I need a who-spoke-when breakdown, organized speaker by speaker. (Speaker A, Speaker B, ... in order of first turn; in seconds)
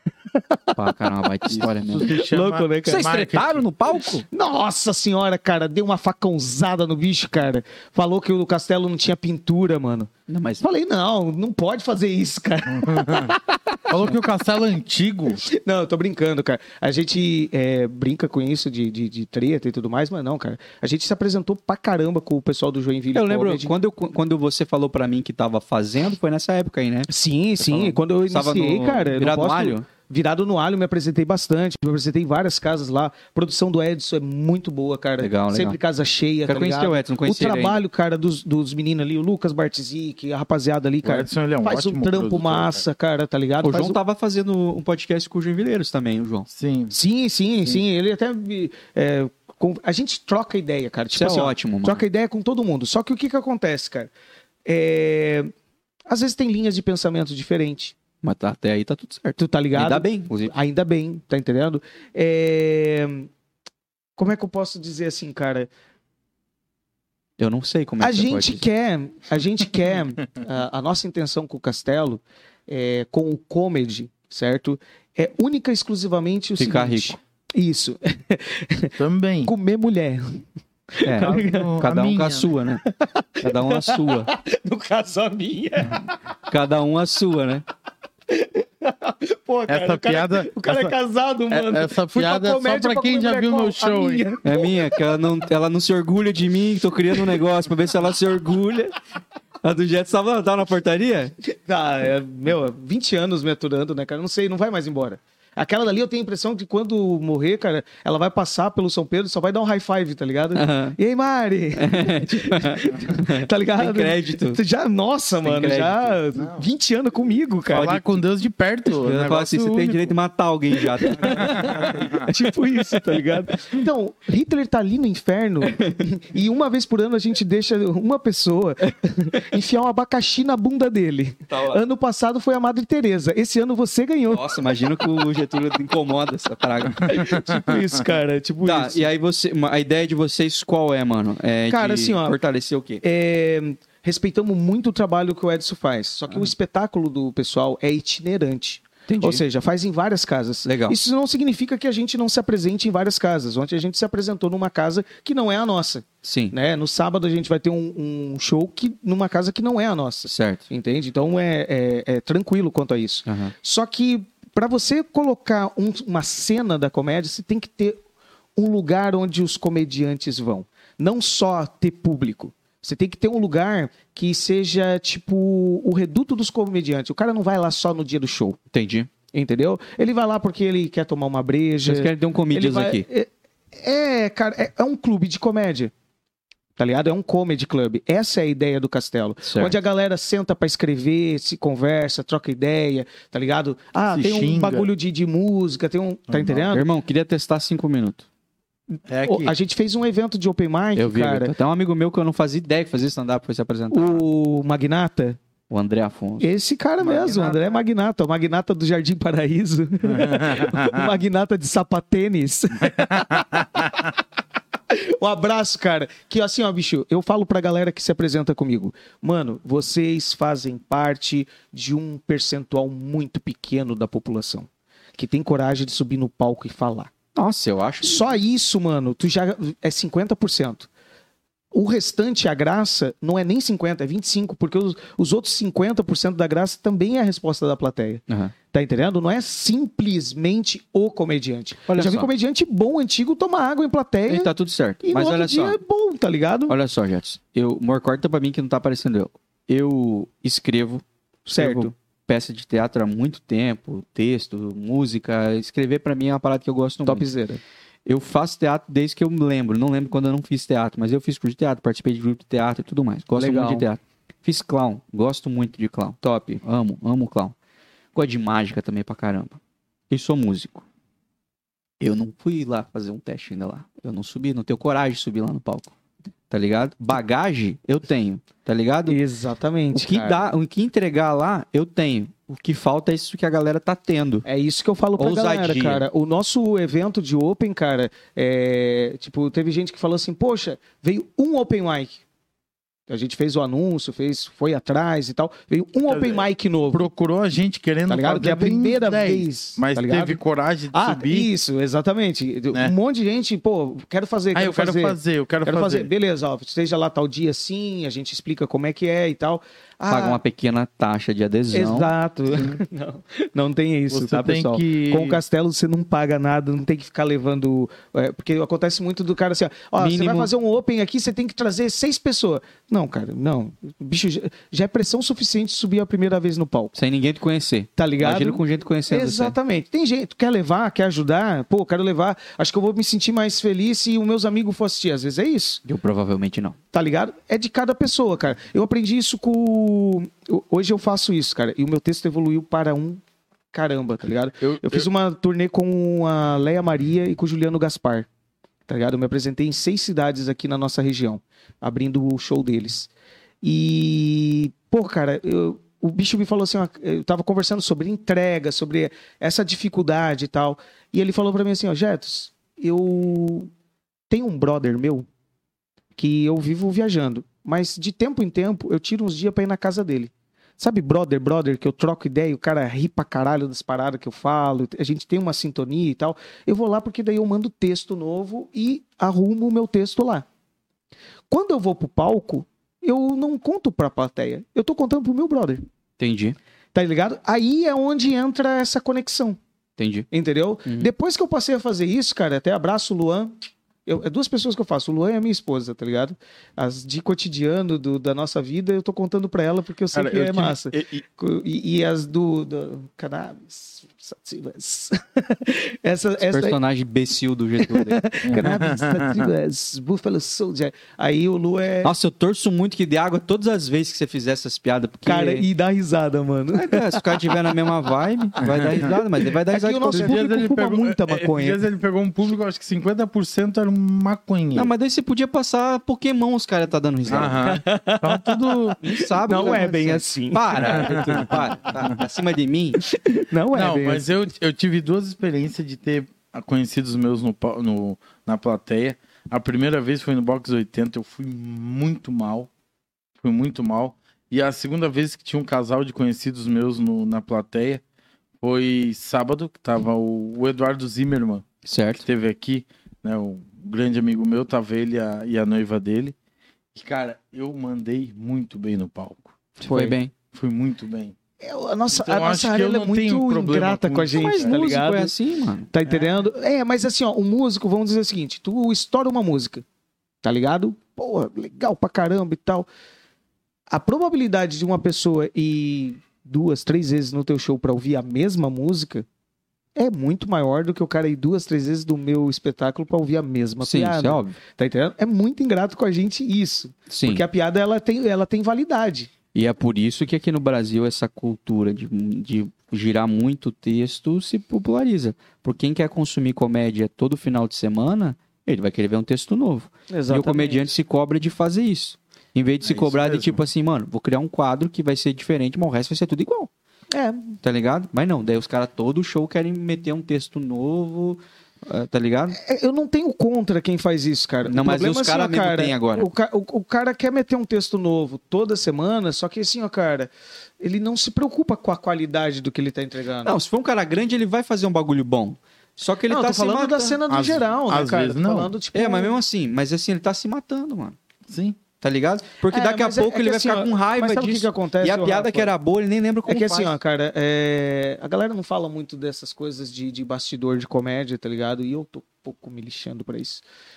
Speaker A: 0.3-0.8, 2.1-3.1, 4.3-13.8, 15.4-23.7, 27.1-44.0, 46.9-54.1, 54.6-55.5, 56.1-58.0, 59.4-63.3, 64.2-65.7, 68.0-78.9, 79.4-80.4, 80.9-81.8, 82.8-86.2, 88.3-95.1, 97.1-97.4, 101.4-118.0, 121.0-134.6, 136.9-139.1, 141.7-142.4, 143.0-168.0, 168.6-178.6, 179.3-185.9, 186.8-196.9, 198.9-201.5, 203.9-205.4, 206.4-214.1, 214.9-227.1, 228.0-230.9, 231.7-246.8, 251.4-251.9, 257.0-257.6, 263.3-263.9, 279.1-280.5, 284.4-292.2, 293.1-297.1, 298.1-300.4, 300.9-310.4, 311.7-326.9, 328.0-335.8, 336.9-343.2, 343.7-348.3, 348.9-353.1, 353.6-363.7, 364.3-365.3, 366.2-380.4, 381.5-385.8, 386.9-389.6, 390.3-406.8, 407.8-412.1, 415.2-417.6, 419.7-421.8, 427.6-428.6, 429.4-431.6, 433.0-434.3, 459.8-460.1, 461.6-465.3, 465.9-469.8, 470.4-472.9, 473.9-479.2, 479.9-489.3, 500.1-500.9, 507.1-507.6, 512.5-523.5, 526.3-529.4, 532.7-535.7, 536.5-543.6
Speaker B: 0.7-2.1, 2.8-4.2, 10.3-10.6, 23.1-29.9, 35.2-35.8, 36.5-37.8, 43.6-46.5, 51.1-52.0, 58.2-60.5, 67.4-68.6, 76.6-77.2, 81.0-82.8, 83.4-84.3, 86.5-87.6, 94.4-98.9, 99.6-101.3, 110.5-111.0, 111.8-114.6, 115.4-116.2, 117.7-118.1, 118.9-122.1, 125.7-126.0, 131.5-131.8, 134.3-137.4, 138.6-143.0, 149.1-149.4, 150.6-151.0, 156.2-156.5, 160.2-160.6, 163.2-163.5, 178.7-179.1, 181.8-183.0, 189.4-189.7, 196.7-198.2, 200.9-204.2, 205.7-206.5, 227.3-228.3, 238.3-238.5, 241.9-242.3, 244.3-245.8, 246.7-257.2, 258.1-267.5, 268.1-270.8, 272.0-275.9, 276.5-279.2, 279.9-284.4, 285.2-286.0, 310.1-312.1, 320.0-320.5, 326.9-329.5, 335.8-336.8, 386.2-386.6, 390.0-390.3, 406.4-408.2, 412.0-415.6, 416.7-420.4, 424.7-427.6, 429.0-433.0, 451.8-452.2, 459.8-460.3, 464.3-465.9, 483.8-484.6, 487.1-487.4, 489.5-506.7, 507.6-512.6, 514.7-516.3, 523.4-527.2, 528.9-531.2, 532.0-537.0
Speaker C: 1.5-3.6, 12.7-15.4, 41.0-42.8, 46.5-46.9, 79.0-79.5, 81.2-82.5, 89.7-90.9, 91.5-94.2, 116.3-116.6, 117.7-120.1, 121.2-122.2, 194.1-194.9, 196.3-196.6, 199.1-199.5, 207.0-207.8, 210.0-211.1, 212.9-213.9, 296.1-301.5, 304.5-306.1, 312.5-312.8, 314.1-315.4, 344.6-345.1, 400.1-401.2, 408.4-409.5, 418.6-419.0, 420.1-424.9, 427.3-429.0, 430.8-432.2, 433.7-442.7, 443.4-448.0, 448.6-451.6, 452.2-456.3, 456.9-459.5, 460.5-461.3, 462.1-464.8, 502.8-503.6, 527.3-528.7, 531.5-531.8